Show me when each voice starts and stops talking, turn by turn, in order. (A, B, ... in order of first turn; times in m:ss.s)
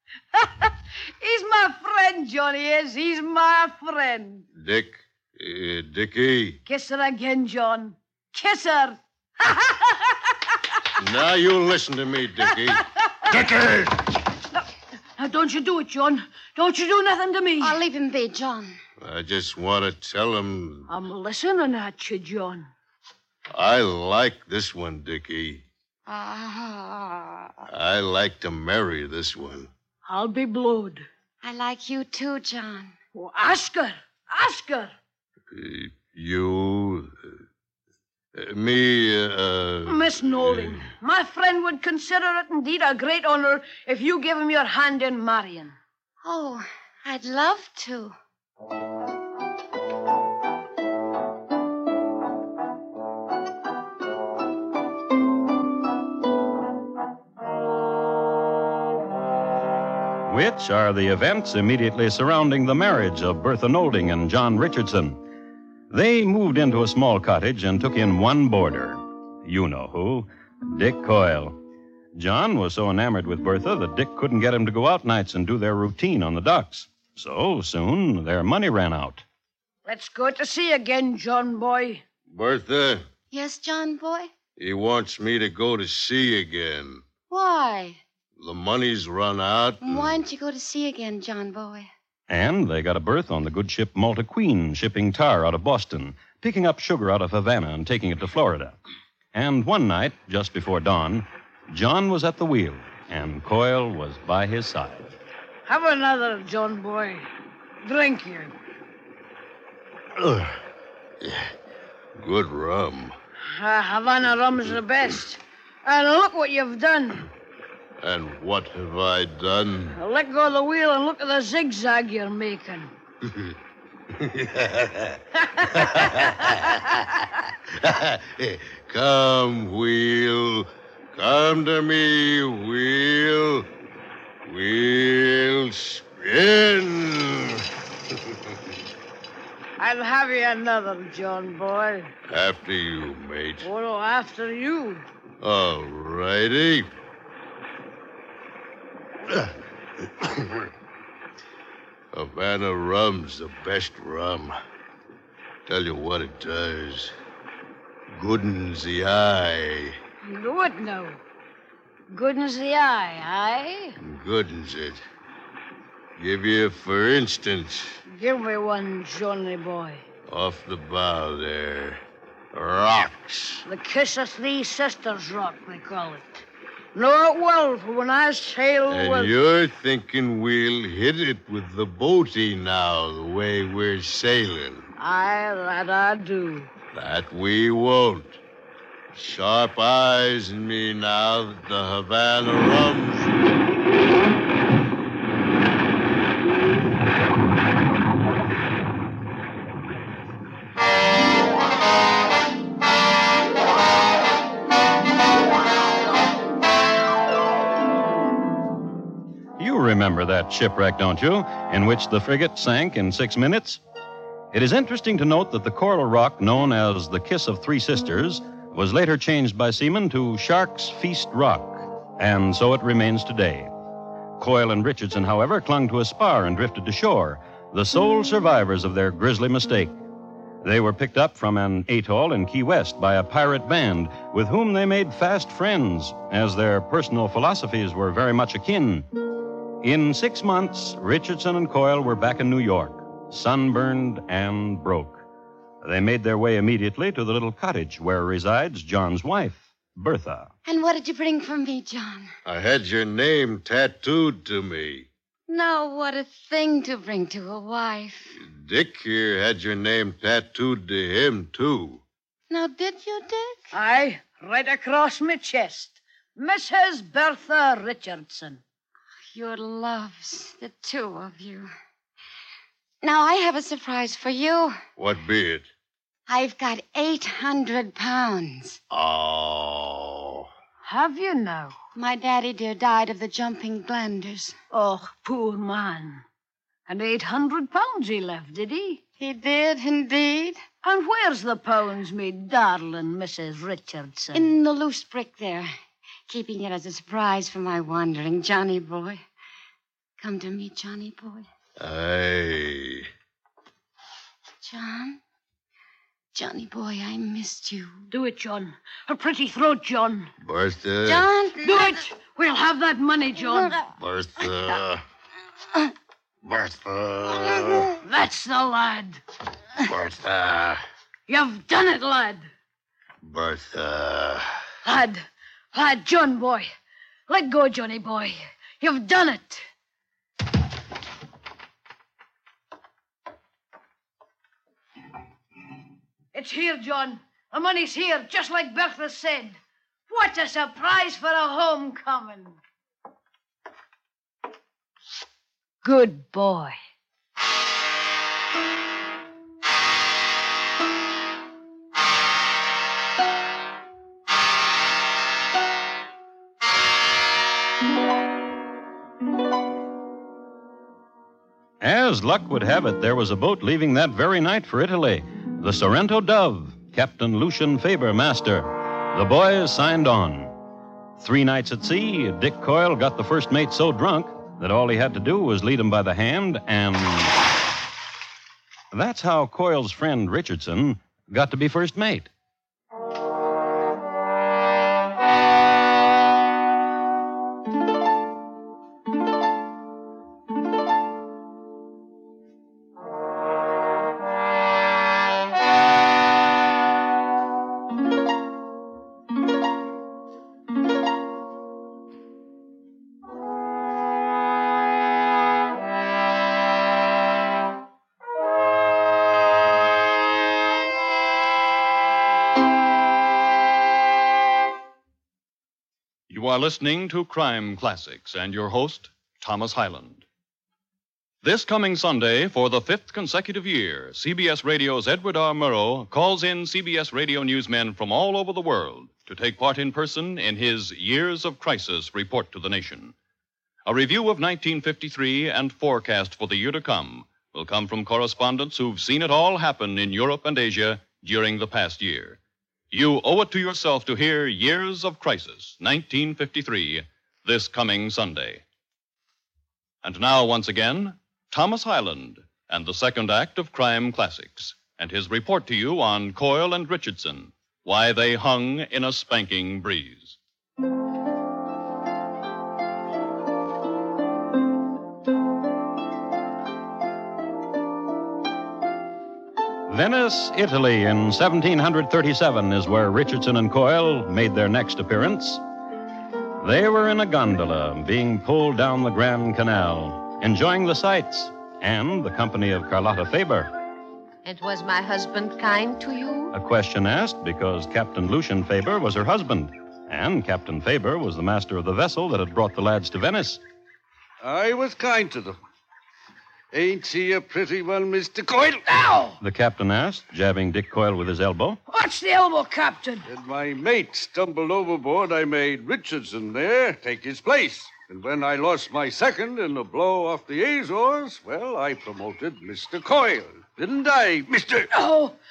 0:00.3-0:04.5 A
0:04.5-0:06.6 B
0:06.6-0:10.3 A
0:11.0-0:14.1 B
0:12.7-0:13.4 A
0:15.2-0:17.8 A
0:17.6-0:18.8 C
0:19.0-0:20.9 B
0:20.9-0:22.7 A
0:23.5-0:25.6 B
0:26.0-0:27.6 C
0:27.7-0:29.7 B
0:30.0-0:31.1 A
0:31.4-0:32.9 C
0:33.1-0:34.9 A
0:35.5-0:37.3 B
0:38.3-0:40.9 B
0:39.8-0:45.8 A
0:46.2-0:48.2 C
1:00.3-1:05.2 D
1:05.9-1:11.6 D
1:12.2-1:19.2 D
1:19.8-1:22.0 A
1:22.3-1:23.0 B
1:23.3-1:24.3 C
1:24.6-1:27.0 B
1:27.3-1:28.0 C
1:28.4-1:30.2 B
1:29.8-1:31.9 C
1:32.3-1:38.8 D
1:39.3-1:45.1 D
1:45.6-1:47.3 A
1:47.8-1:48.5 A
1:50.2-1:50.6 B
1:51.2-1:51.5 B
1:52.1-1:53.1 B
1:53.4-1:57.3 A
1:58.0-2:00.0 B
1:59.9-2:02.9 A
2:03.2-2:03.5 B
2:04.1-2:07.0 B
2:05.4-2:06.3 A
2:07.7-2:13.7 B
2:14.4-2:18.6 B
2:19.8-2:22.1 A
2:22.3-2:23.7 B
2:23.6-2:25.0 A
2:25.4-2:26.9 B
2:29.3-2:30.7 B
2:32.1-2:34.6 B
2:35.7-2:37.1 B
2:38.1-2:40.0 B
2:40.2-2:41.2 A
2:42.1-2:44.0 A
2:44.0-2:45.0 B
2:46.2-2:48.0 B
2:48.1-2:50.0 A
2:50.3-2:52.0 B
2:52.5-2:53.6 B
2:53.6-2:59.3 A
2:58.9-3:04.9 B
3:05.0-3:06.7 A
3:06.9-3:08.4 B
3:09.1-3:13.3 B
3:29.6-3:33.8 D
3:34.5-3:43.7 D
3:44.4-3:49.9 D
3:50.6-3:59.0 D
3:59.8-4:05.2 D
4:05.8-4:10.5 D
4:10.6-4:12.3 C
4:12.4-4:15.1 B
4:15.5-4:18.4 C
4:18.4-4:22.0 B
4:22.5-4:23.7 C
4:23.7-4:28.6 A
4:29.3-4:31.7 C
4:33.0-4:34.8 C
4:35.0-4:35.7 B
4:36.3-4:38.8 C
4:38.9-4:40.5 B
4:40.8-4:41.8 A
4:41.9-4:44.6 C
4:44.7-4:46.2 A
4:46.9-4:49.0 A
4:49.2-4:50.6 C
4:50.8-4:54.5 A
4:54.3-4:55.7 C
4:56.3-4:59.2 C
5:00.2-5:01.4 C
5:01.8-5:03.1 B
5:04.6-5:05.2 C
5:06.3-5:08.0 C
5:08.1-5:10.3 A
5:10.4-5:11.2 B
5:11.0-5:11.9 C
5:11.6-5:13.8 A
5:13.5-5:13.9 C
5:14.0-5:15.0 B
5:16.4-5:17.9 B
5:17.4-5:17.9 C
5:18.0-5:19.2 A
5:19.8-5:20.8 B
5:21.3-5:22.5 A
5:23.2-5:24.6 B
5:24.8-5:26.7 A
5:27.3-5:29.6 A
5:36.3-5:39.6 A
5:40.1-5:42.6 A
5:45.8-5:46.7 A
6:01.8-6:10.5 D
6:11.2-6:17.4 D
6:18.9-6:22.3 D
6:56.3-7:00.2 E
7:01.4-7:13.1 E
7:13.8-7:22.4 E
7:22.9-7:28.6 E
7:30.0-7:40.4 E
7:49.9-7:55.6 D
7:56.6-8:03.7 D
8:04.4-8:06.5 F
8:06.5-8:13.6 D
8:14.4-8:15.6 G
8:16.7-8:19.4 G
8:19.4-8:21.8 D
8:21.9-8:23.2 A
8:23.3-8:34.9 G
8:34.9-8:35.3 A